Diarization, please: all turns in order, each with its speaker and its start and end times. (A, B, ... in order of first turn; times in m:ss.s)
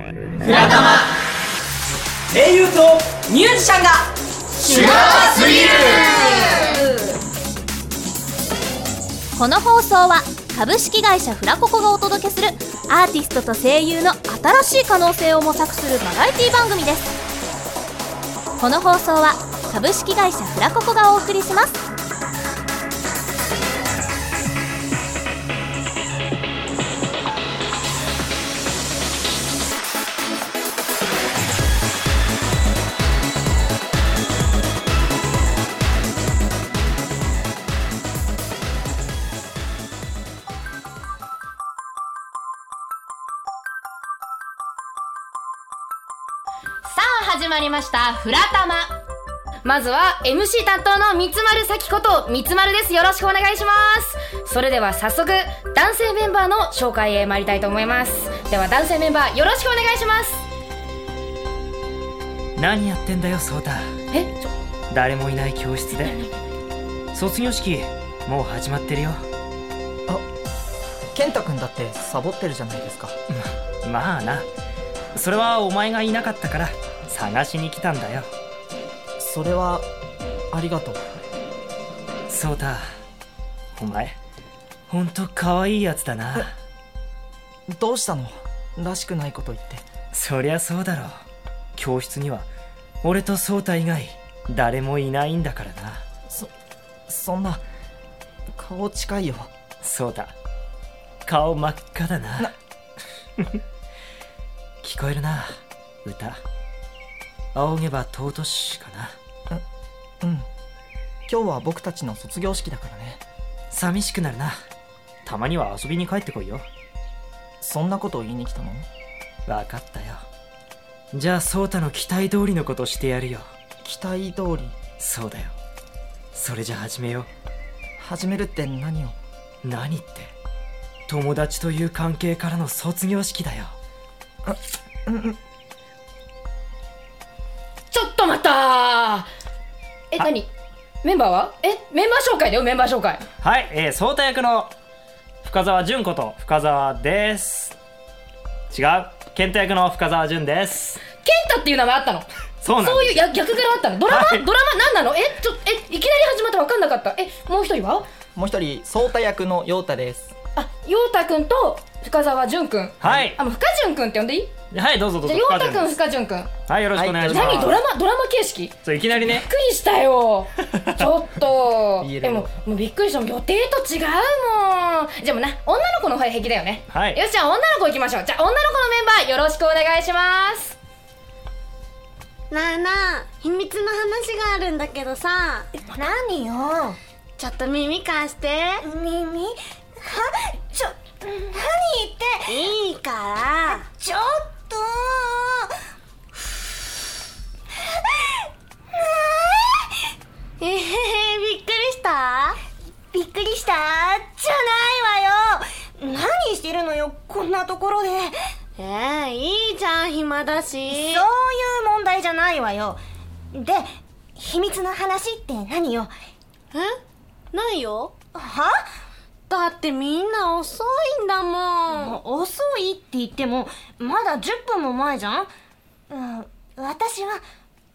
0:00.4-0:01.1 A
0:02.3-0:04.0 A
0:04.6-0:06.7 A
0:09.3-0:17.2 B
0:18.6-0:21.8 B
0:46.8-0:49.0 C
0:49.6-1:00.4 C
1:02.6-1:03.9 D
1:04.1-1:04.5 C
1:04.9-1:06.2 D
1:07.1-1:09.2 D
1:11.1-1:13.2 E
1:13.3-1:14.5 D
1:15.2-1:18.3 D
1:19.2-1:19.9 E
1:20.5-1:21.2 E
1:22.3-1:22.8 D
1:23.8-1:24.2 D
1:24.9-1:26.5 D
1:27.7-1:29.8 E
1:30.1-1:31.2 D
1:31.8-1:32.5 D
1:33.0-1:36.0 D
1:37.1-1:37.6 E
1:38.5-1:39.5 E
1:39.8-1:40.3 D
1:41.3-1:42.5 D
1:44.8-1:45.5 D
1:46.0-1:46.4 D
1:47.5-1:49.1 D
1:50.2-1:50.5 E
1:51.3-1:53.2 E
1:53.7-1:54.6 D
1:55.2-1:56.6 D
1:57.6-1:58.9 E
1:59.5-2:00.2 D
2:01.1-2:03.5 D
2:03.8-2:04.8 E
2:05.0-2:05.5 D
2:06.3-2:07.3 D
2:08.0-2:09.2 E
2:09.6-2:10.3 D
2:11.1-2:13.8 D
2:14.4-2:15.4 E
2:17.9-2:19.3 C
2:20.1-2:20.5 C
2:21.0-2:23.2 C
2:23.4-2:24.7 D
2:25.4-2:27.8 D
2:28.7-2:31.0 D
2:31.2-2:38.1 C
2:32.6-2:33.2 D
2:34.1-2:34.4 D
2:38.3-2:40.3 E
2:40.6-2:44.5 C
2:43.0-2:43.4 D
2:44.7-2:46.0 D
2:45.2-2:46.5 C
2:46.7-2:47.8 D
2:46.9-2:47.7 E
2:47.3-3:00.8 C
2:48.8-2:49.5 D
2:50.7-2:51.0 D
2:52.0-2:52.5 E
2:56.9-2:57.2 D
3:02.5-3:05.7 F
3:05.8-3:07.0 G
3:07.4-3:08.8 F
3:08.8-3:12.8 G
3:12.5-3:13.8 F
3:13.7-3:15.7 G
3:19.0-3:19.8 G
3:20.6-3:22.6 F
3:23.1-3:28.3 G
3:28.8-3:31.2 F
3:30.9-3:33.0 G
3:33.5-3:36.1 G
3:37.5-3:38.2 F
3:38.3-3:38.7 G
3:39.5-3:42.1 F
3:41.9-3:45.5 G
3:46.1-3:47.4 G